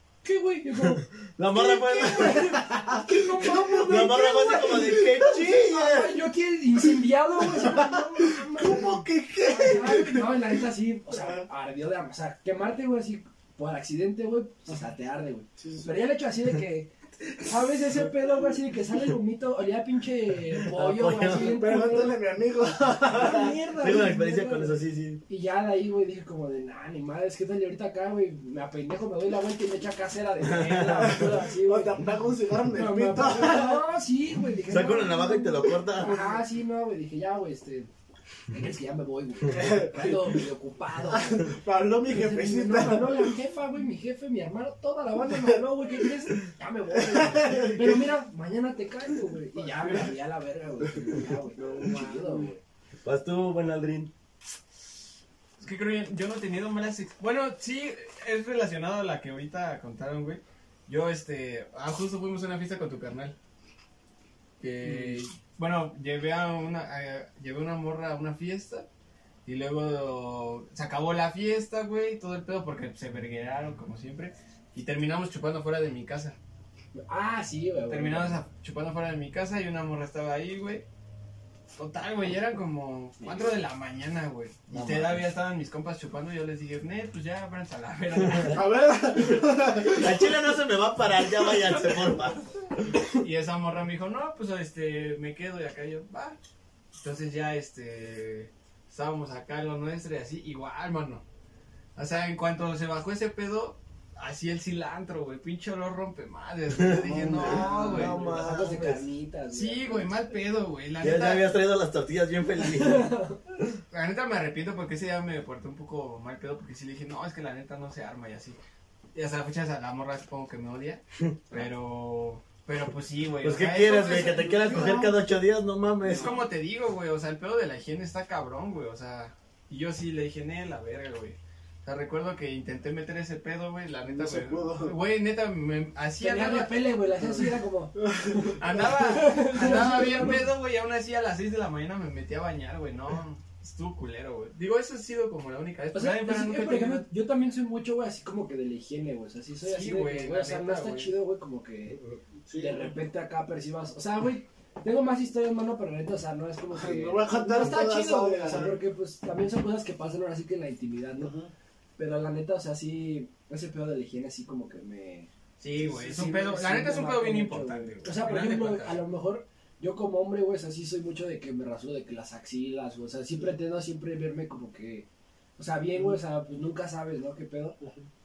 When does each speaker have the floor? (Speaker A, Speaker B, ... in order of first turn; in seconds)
Speaker A: 0.2-22.2, 23.0-32.0, 32.7-37.9, 38.5-41.5, 42.1-52.6, 76.9-78.4, 107.3-110.2, 112.6-113.4, 136.2-140.4, 145.9-152.0, 152.5-161.3, 162.0-165.3, 165.9-175.1, 175.6-177.8
Speaker B: 0.8-6.2, 20.5-21.6, 23.1-25.2, 30.4-31.3, 34.7-36.2, 53.0-54.1, 84.7-85.3, 89.8-93.0, 106.8-109.0, 111.0-113.1, 121.2-121.6, 123.4-126.4
Speaker C: 3.4-3.8, 4.7-5.2, 7.4-11.4, 15.6-15.9, 21.2-23.5, 31.0-33.9, 36.0-36.4, 39.5-40.5, 41.0-43.3, 47.0-48.0, 51.5-52.5, 88.4-90.3, 106.9-108.4, 123.9-125.1, 134.1-134.9, 137.3-138.9, 152.4-152.9, 156.7-158.8, 161.2-161.5, 177.8-178.1
Speaker D: 55.6-63.3, 64.6-68.8, 69.5-76.4, 77.9-80.8, 81.8-88.7, 93.1-96.4, 97.0-101.2, 102.0-108.1, 109.5-111.5, 113.9-118.6, 119.1-124.3, 126.0-136.9, 138.6-147.1, 149.6-151.1, 165.6-169.0